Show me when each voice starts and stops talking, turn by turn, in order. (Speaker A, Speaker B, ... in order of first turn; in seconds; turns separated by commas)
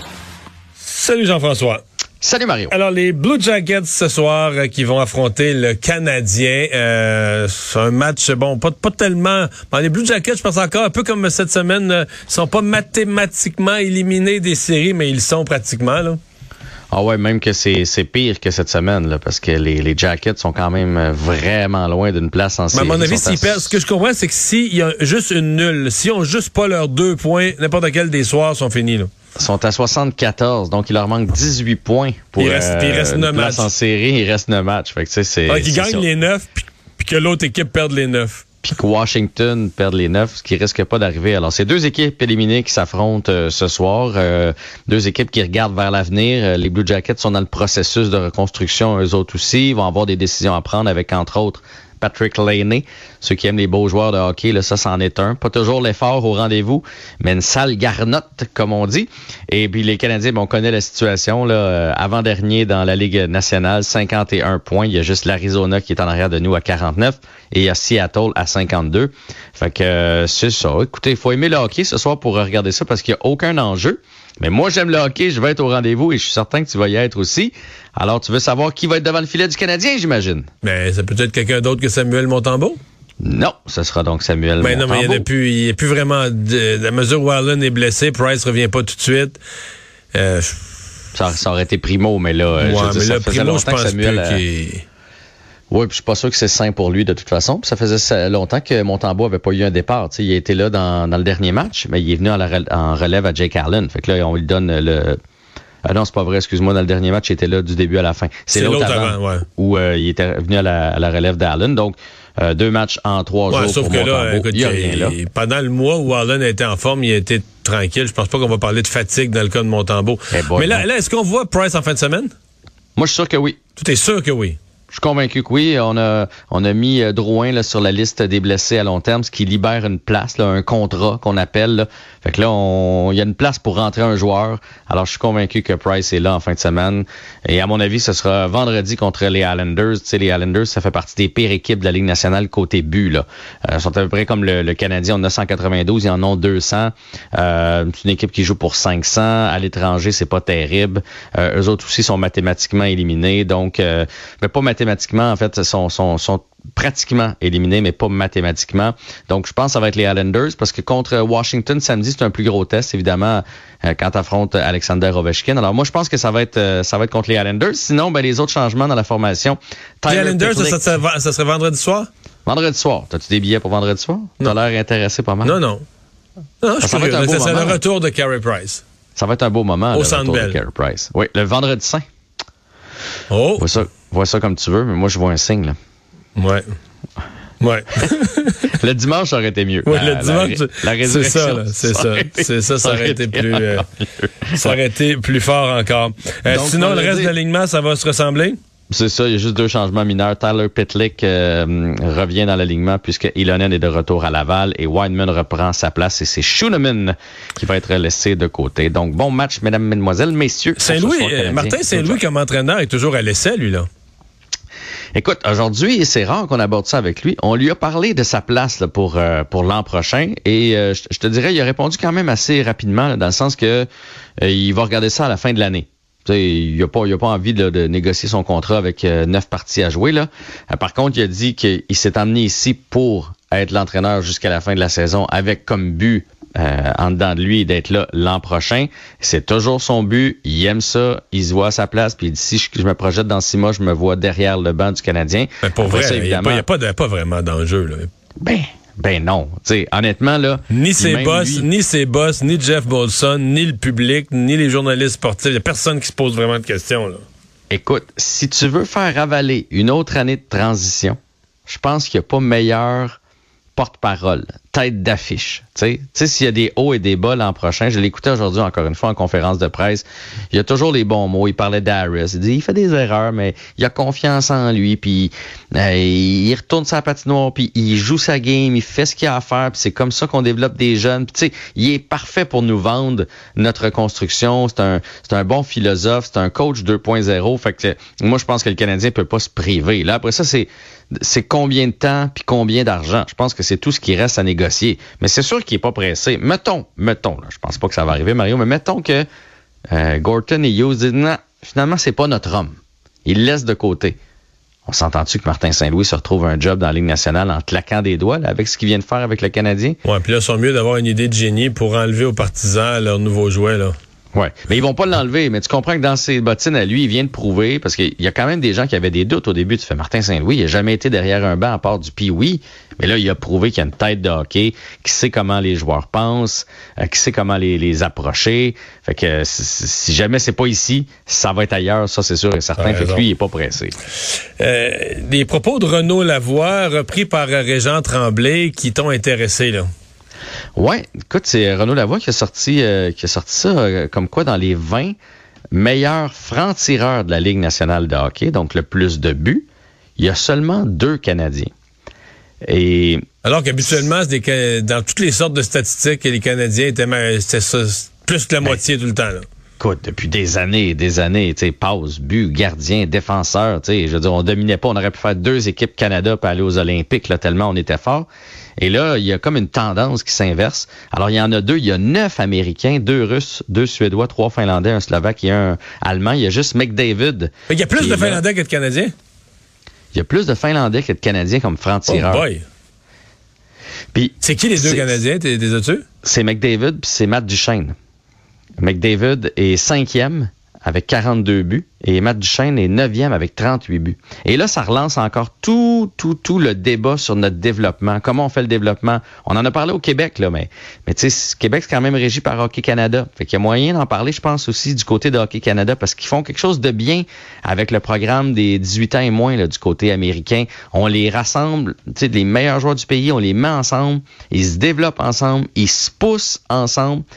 Speaker A: 0.8-1.8, Speaker B: 2.2-2.7, Speaker A: 2.7-16.2, Speaker B: 16.9-23.7, Speaker A: 22.7-29.1, Speaker B: 29.4-36.1, Speaker A: 32.4-33.7, Speaker A: 35.5-38.4, Speaker B: 38.6-80.5, Speaker A: 80.6-82.8, Speaker B: 83.2-85.2, Speaker A: 84.6-89.4, Speaker A: 90.1-90.6, Speaker B: 91.1-94.4, Speaker A: 92.6-94.8, Speaker B: 95.7-105.2, Speaker B: 105.8-115.2, Speaker A: 108.5-109.5, Speaker A: 113.5-122.3, Speaker B: 120.3-120.8, Speaker B: 123.0-123.6, Speaker A: 123.8-124.6, Speaker B: 124.9-170.8, Speaker A: 170.1-172.1, Speaker B: 172.4-175.6, Speaker A: 175.4-175.8, Speaker A: 176.6-178.8, Speaker B: 176.8-177.8, Speaker B: 179.2-182.1, Speaker A: 179.9-180.6, Speaker A: 183.3-183.7, Speaker B: 183.6-185.8, Speaker A: 186.3-186.7, Speaker A: 187.6-188.7, Speaker B: 188.7-194.8, Speaker A: 189.8-193.9, Speaker A: 194.5-198.6, Speaker B: 196.5-197.3, Speaker B: 198.9-212.2, Speaker A: 210.8-213.9, Speaker B: 215.1-223.9, Speaker B: 224.4-246.6, Speaker A: 245.6-248.1, Speaker B: 248.4-251.7, Speaker A: 250.7-257.2, Speaker B: 257.7-263.2, Speaker B: 263.8-299.2, Speaker B: 299.9-304.1, Speaker B: 304.9-310.0, Speaker A: 310.0-313.9, Speaker B: 314.3-333.9, Speaker A: 332.8-333.2, Speaker A: 334.6-339.9, Speaker B: 340.8-345.1, Speaker B: 345.7-349.6, Speaker B: 350.2-351.7, Speaker B: 352.6-353.2, Speaker A: 353.4-359.4, Speaker B: 359.8-368.3, Speaker B: 368.8-378.4, Speaker A: 377.7-379.1, Speaker B: 380.1-382.5, Speaker A: 382.1-382.6, Speaker B: 384.1-385.1, Speaker A: 384.4-386.0, Speaker B: 386.2-387.9, Speaker B: 388.8-417.2